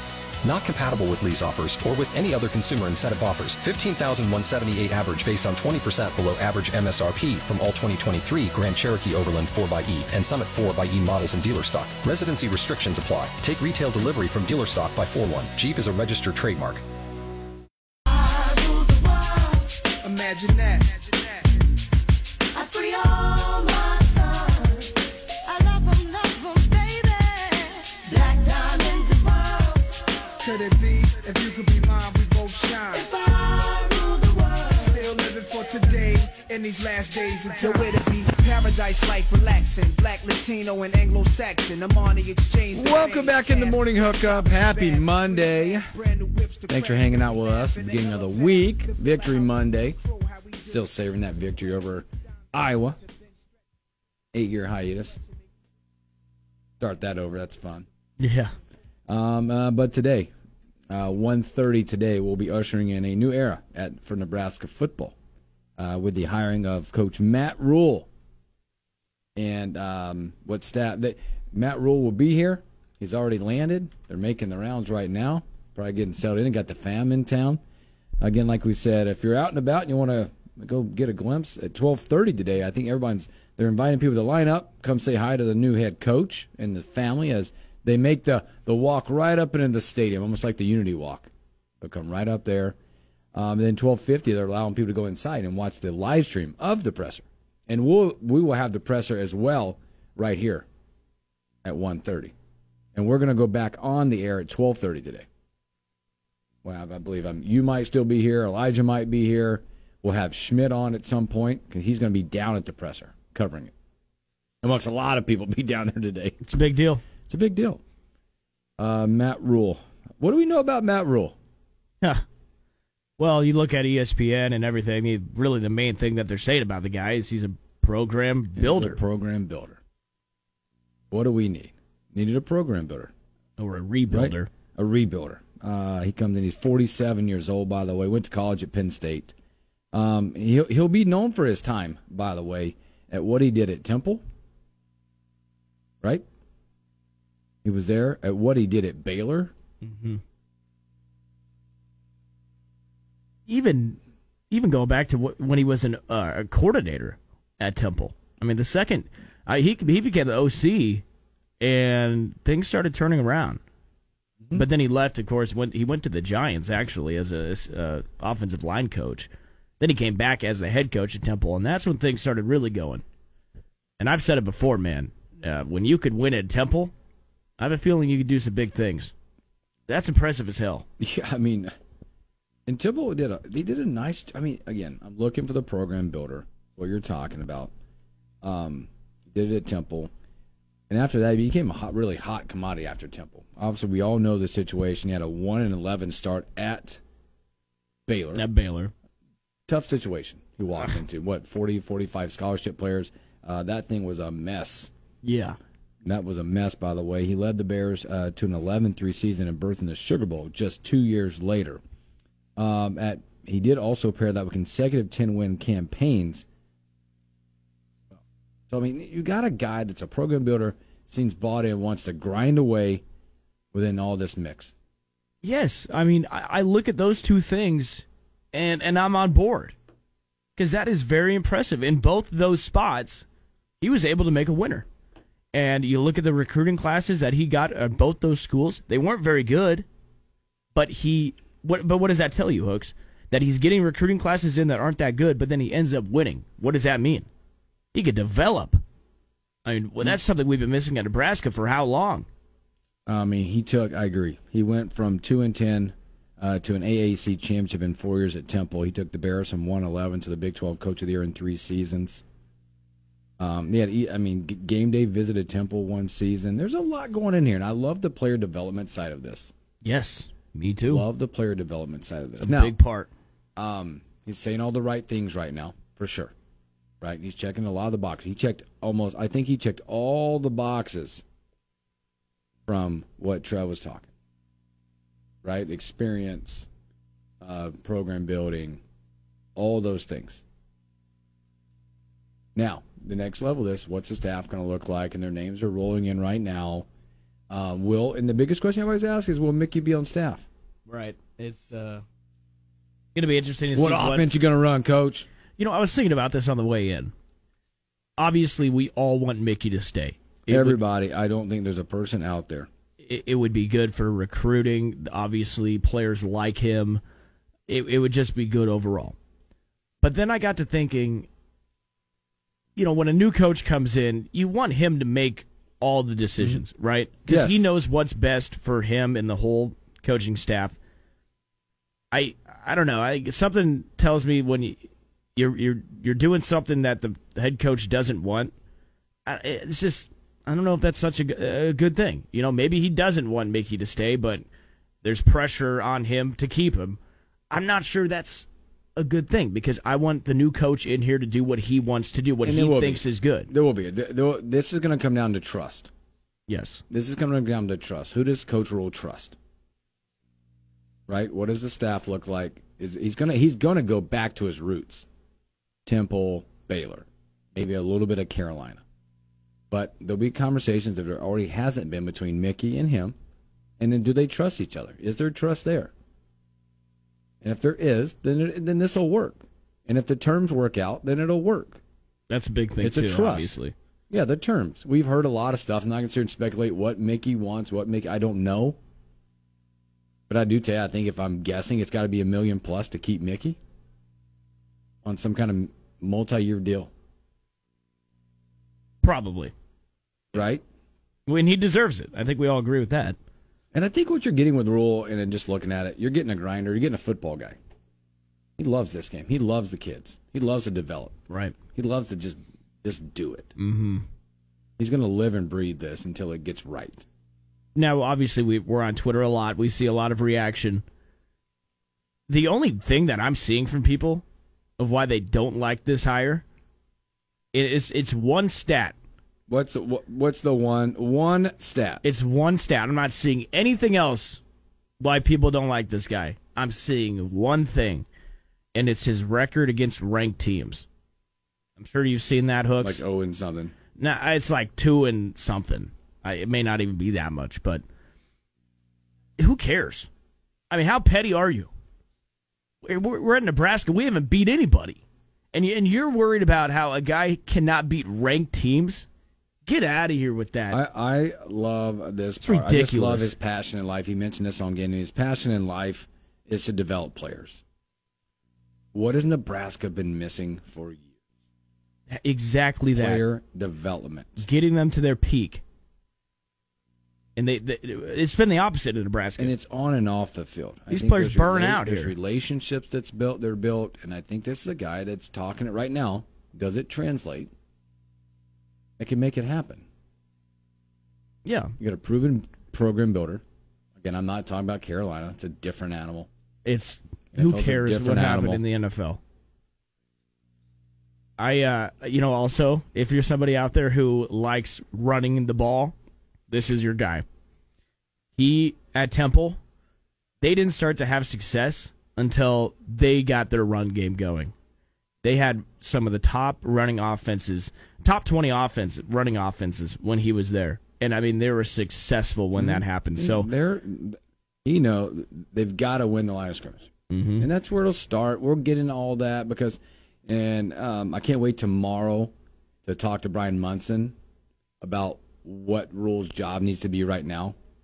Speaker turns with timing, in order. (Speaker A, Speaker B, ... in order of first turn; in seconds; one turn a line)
Speaker A: 0.4-16.8
Speaker B: 18.1-19.7
Speaker C: 20.0-21.4
Speaker B: 22.5-24.9
Speaker B: 25.4-30.3
Speaker C: 30.4-33.1
Speaker B: 32.9-35.0
Speaker C: 34.8-50.9
Speaker B: 37.5-38.0
Speaker D: 42.7-45.9
Speaker D: 46.7-50.0
Speaker D: 50.6-53.0
Speaker D: 54.3-55.2
Speaker D: 56.8-57.9
Speaker E: 58.2-58.5
Speaker D: 59.1-60.3
Speaker D: 60.9-65.2
Speaker D: 65.8-68.1
Speaker D: 69.4-77.6
Speaker D: 78.2-91.3
Speaker D: 91.8-92.8
Speaker D: 93.3-100.7
Speaker D: 101.6-102.3
Speaker D: 103.0-105.3
Speaker D: 106.6-113.7
Speaker D: 114.6-116.4
Speaker E: 116.4-117.0
Speaker D: 117.3-117.8
Speaker D: 118.8-121.4
Speaker E: 123.2-129.0
Speaker D: 128.6-129.8
Speaker D: 131.1-133.1
Speaker E: 133.6-134.5
Speaker D: 134.1-139.3
Speaker D: 139.9-144.2
Speaker D: 147.6-149.5
Speaker E: 149.8-150.2
Speaker E: 153.5-154.0
Speaker E: 154.5-161.0
Speaker E: 161.6-163.6
Speaker E: 164.5-169.3
Speaker E: 169.8-173.0
Speaker E: 174.0-176.9
Speaker E: 177.6-179.1
Speaker E: 179.9-180.9
Speaker D: 181.0-181.7
Speaker D: 182.7-187.7
Speaker D: 188.4-190.1
Speaker D: 190.9-197.0
Speaker D: 198.1-198.4
Speaker E: 198.3-198.9
Speaker D: 199.7-204.9
Speaker E: 205.2-205.6
Speaker D: 206.0-211.8
Speaker D: 212.6-216.5
Speaker D: 218.1-223.0
Speaker D: 223.7-224.7
Speaker E: 225.4-229.8
Speaker E: 230.6-233.3
Speaker E: 233.8-234.9
Speaker E: 235.5-239.9
Speaker E: 240.7-247.3
Speaker E: 247.9-248.8
Speaker E: 249.7-252.3
Speaker D: 253.1-262.2
Speaker D: 263.4-269.5
Speaker E: 269.8-271.0
Speaker D: 270.9-272.7
Speaker E: 272.4-273.1
Speaker D: 273.6-276.3
Speaker D: 277.0-281.2
Speaker D: 282.7-284.1
Speaker D: 285.4-286.7
Speaker D: 287.4-288.8
Speaker D: 289.6-290.4
Speaker D: 292.6-296.9
Speaker D: 297.5-300.5
Speaker E: 300.9-302.0
Speaker E: 303.1-304.3
Speaker D: 303.7-305.3
Speaker E: 305.6-307.1
Speaker E: 308.2-310.8
Speaker D: 310.5-312.7
Speaker E: 313.0-317.0
Speaker E: 317.7-319.1
Speaker E: 320.0-321.3
Speaker E: 322.8-330.8
Speaker D: 327.3-327.6
Speaker E: 332.1-334.8
Speaker E: 335.4-338.5
Speaker E: 339.3-344.4
Speaker E: 345.0-347.0
Speaker E: 347.5-353.5
Speaker D: 352.4-355.9
Speaker E: 356.5-356.8
Speaker D: 356.9-359.4
Speaker D: 361.1-365.1
Speaker D: 365.9-368.8
Speaker D: 369.7-373.1
Speaker D: 373.8-375.9
Speaker D: 377.4-381.8
Speaker E: 382.3-383.7
Speaker D: 382.8-383.5
Speaker D: 384.1-388.8
Speaker D: 390.3-393.6
Speaker D: 395.0-396.9
Speaker E: 399.0-399.5
Speaker D: 400.3-400.6
Speaker E: 401.3-403.2
Speaker D: 403.7-407.6
Speaker D: 408.6-411.2
Speaker E: 411.3-411.6
Speaker D: 411.8-413.5
Speaker E: 413.6-414.1
Speaker D: 414.8-417.1
Speaker E: 417.8-420.8
Speaker E: 422.3-424.2
Speaker E: 424.8-426.4
Speaker E: 427.5-429.0
Speaker D: 429.5-432.0
Speaker E: 432.0-434.4
Speaker E: 435.0-438.1
Speaker E: 438.7-440.9
Speaker E: 441.8-443.0
Speaker D: 442.8-443.8
Speaker E: 444.0-447.8
Speaker E: 449.4-450.1
Speaker E: 450.7-451.7
Speaker E: 452.8-455.0
Speaker E: 455.5-459.1
Speaker E: 459.6-460.8
Speaker D: 460.7-467.6
Speaker E: 462.4-463.3
Speaker D: 468.9-471.1
Speaker E: 472.1-473.2
Speaker D: 472.9-474.5
Speaker E: 474.4-475.6
Speaker E: 477.4-479.5
Speaker D: 479.4-487.5
Speaker E: 480.9-482.1
Speaker D: 489.0-489.9
Speaker E: 491.4-491.8
Speaker D: 491.8-493.4
Speaker D: 494.0-496.3
Speaker E: 496.6-499.2
Speaker D: 497.3-498.6
Speaker E: 501.4-505.9
Speaker E: 506.5-507.2
Speaker E: 508.4-509.6
Speaker E: 510.4-514.5
Speaker E: 515.2-523.5
Speaker D: 522.6-526.9
Speaker E: 527.1-527.5
Speaker D: 527.4-532.3
Speaker D: 532.8-534.1
Speaker D: 534.8-537.6